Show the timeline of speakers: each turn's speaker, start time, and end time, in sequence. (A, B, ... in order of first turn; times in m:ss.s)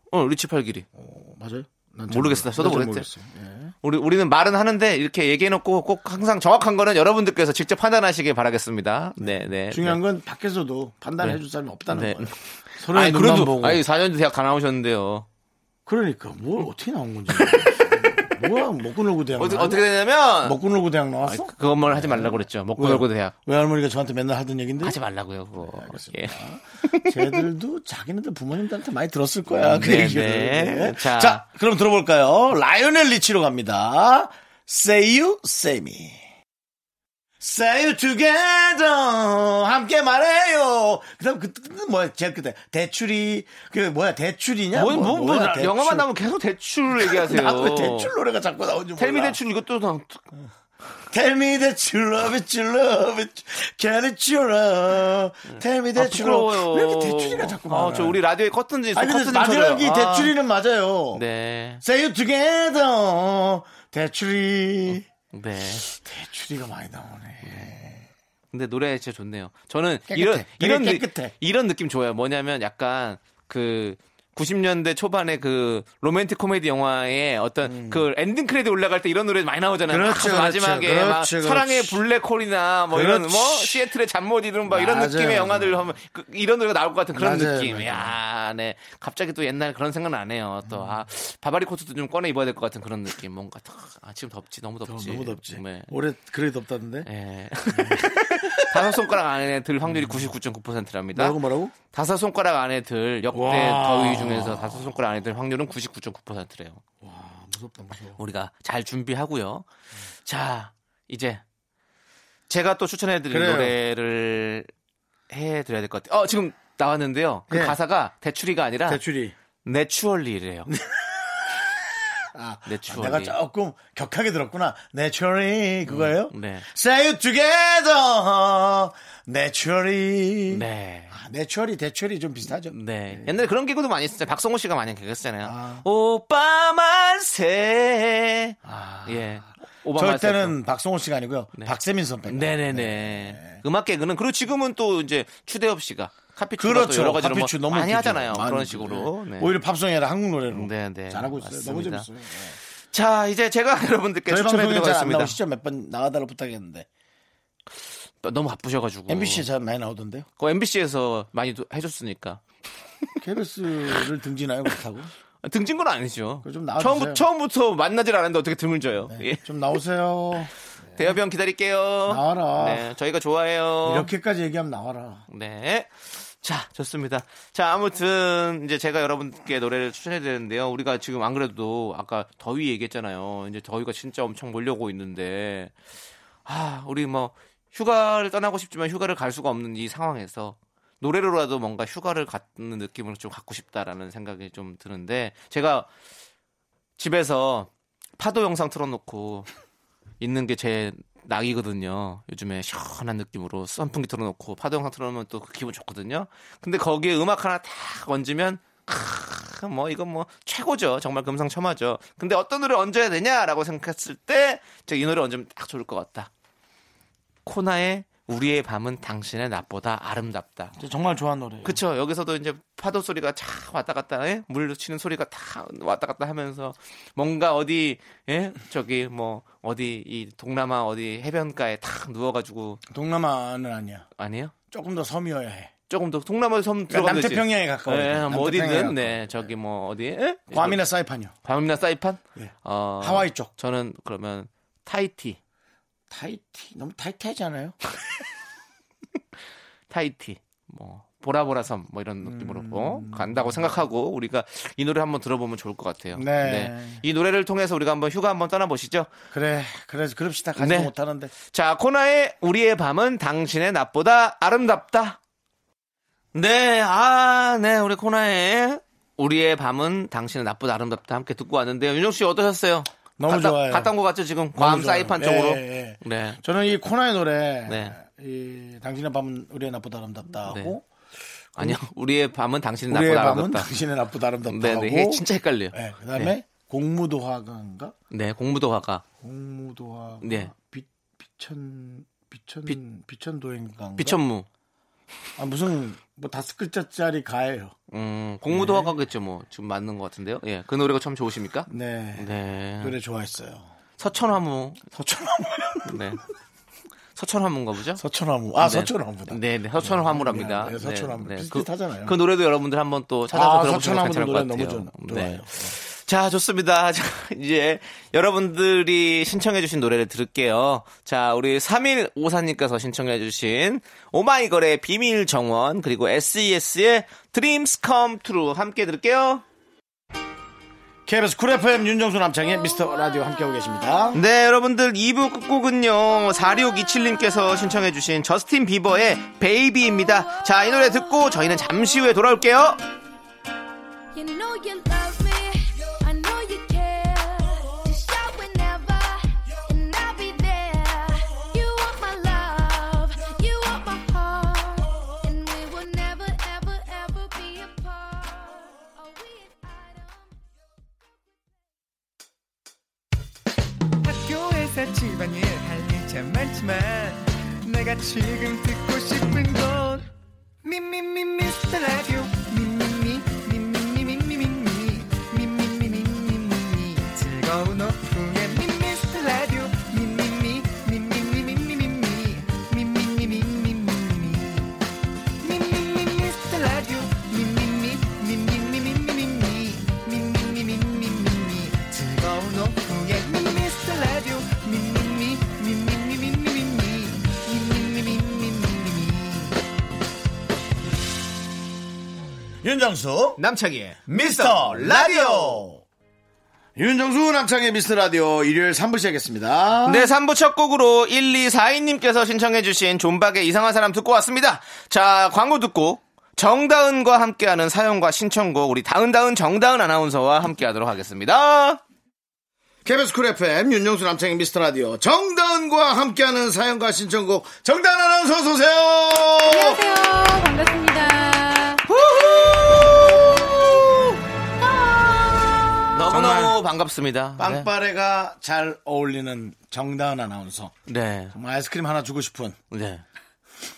0:00.1-0:00.8 A
0:00.9-0:03.7 B
0:02.1-0:03.1 A
0:03.8-0:10.0 A
0:09.2-0:13.8 B
0:11.2-0:15.2 A
0:15.8-0:19.8 B
0:17.3-0:18.1 A
0:19.4-0:20.6 A
0:20.4-0:25.0 B
0:21.2-0:23.3 A
0:24.8-0:27.4 A
0:25.6-0:36.2 B
0:29.5-0:31.4 A
0:37.4-0:46.1 B
0:44.7-0:48.1 A
0:46.9-0:49.4 B
0:49.0-0:50.2 A
0:51.1-0:58.2 B
0:55.5-1:00.3 A
0:58.9-1:01.2 B
1:01.1-1:01.8 A
1:01.8-1:05.0 B
1:05.3-1:05.8 A
1:05.8-1:08.1 B
1:08.5-1:35.9 A
1:10.1-1:11.3 B
1:17.6-1:18.0 B
1:19.9-1:22.0 B
1:22.9-1:23.9 B
1:24.6-1:25.9 B
1:27.1-1:28.2 B
1:30.6-1:31.0 B
1:34.8-1:37.1 B
1:37.0-1:46.8 A
1:37.7-1:39.0 B
1:39.8-1:40.3 B
1:41.1-1:41.7 B
1:43.3-1:45.0 B
1:47.0-1:48.2 B
1:48.2-1:49.6 A
1:50.2-1:51.4 A
1:52.5-1:54.7 A
1:53.3-1:53.8 B
1:55.3-1:59.0 A
1:57.5-1:57.8 B
1:58.9-1:59.3 B
1:59.6-2:00.7 A
2:00.7-2:13.4 B
2:02.6-2:03.3 A
2:05.8-2:06.6 A
2:10.5-2:11.1 A
2:12.5-2:20.6 A
2:15.4-2:15.8 B
2:18.6-2:23.6 B
2:22.3-2:29.5 A
2:26.6-2:32.6 B
2:30.5-2:32.1 A
2:32.9-2:35.4 A
2:34.3-2:36.9 B
2:38.2-2:39.4 A
2:39.1-2:40.3 B
2:40.4-2:42.4 A
2:43.2-2:45.1 B
2:45.4-2:49.4 A
2:46.4-2:47.2 B
2:49.1-2:51.1 B
2:51.0-2:54.1 A
2:52.1-2:52.9 B
2:53.8-2:55.2 B
2:55.3-3:05.7 A
3:06.4-3:15.9 A
3:17.0-3:19.5 A
3:20.2-3:36.3 A
3:37.4-3:40.8 A
3:40.8-3:41.8 B
3:41.6-3:52.8 A
3:52.9-3:54.1 B
3:54.2-3:54.5 A
3:54.7-3:55.7 B
3:55.9-4:00.8 A
3:56.9-3:59.5 B
4:00.5-4:01.3 B
4:01.4-4:05.4 A
4:02.3-4:03.5 B
4:06.1-4:07.8 B
4:09.9-4:19.1 A
4:12.2-4:13.8 B
4:16.1-4:17.0 B
4:19.3-4:21.3 B
4:20.6-4:25.2 A
4:26.3-4:36.4 A
4:33.2-4:33.9 B
4:34.5-4:40.8 B
4:37.7-4:37.9 A
4:40.5-4:40.7 A
4:41.5-4:41.8 B
4:41.6-4:43.7 A
4:42.9-4:47.9 B
4:44.5-4:46.3 A
4:48.1-4:49.0 A
4:49.2-4:54.2 B
4:50.2-4:50.5 A
4:54.0-4:54.5 A
4:55.4-4:57.7 B
4:57.9-5:02.9 A
4:58.5-4:58.9 B
5:01.7-5:03.7 B
5:04.0-5:04.8 A
5:04.9-5:06.2 B
5:05.8-5:06.2 A
5:07.2-5:08.0 A
5:07.9-5:12.2 B
5:08.6-5:29.4 A
5:13.3-5:15.7 B
5:31.0-5:34.2 B
5:34.1-5:42.8 A
5:40.0-5:41.4 C
5:44.1-6:00.4 C
6:04.0-6:10.1 D
6:10.6-6:24.8 D
6:25.4-6:39.6 D
6:42.6-6:43.4 B
6:43.4-6:45.6 A
6:44.1-6:45.8 B
6:46.8-6:50.1 B
6:49.8-7:01.8 A
7:02.8-7:09.8 B
7:09.5-7:11.8 E
7:12.0-7:14.0 B
7:14.6-7:15.5 E
7:15.9-7:17.7 A
7:16.0-7:16.6 B
7:17.4-7:20.8 B
7:20.9-7:21.3 A
7:21.3-7:22.6 B
7:22.7-7:23.0 A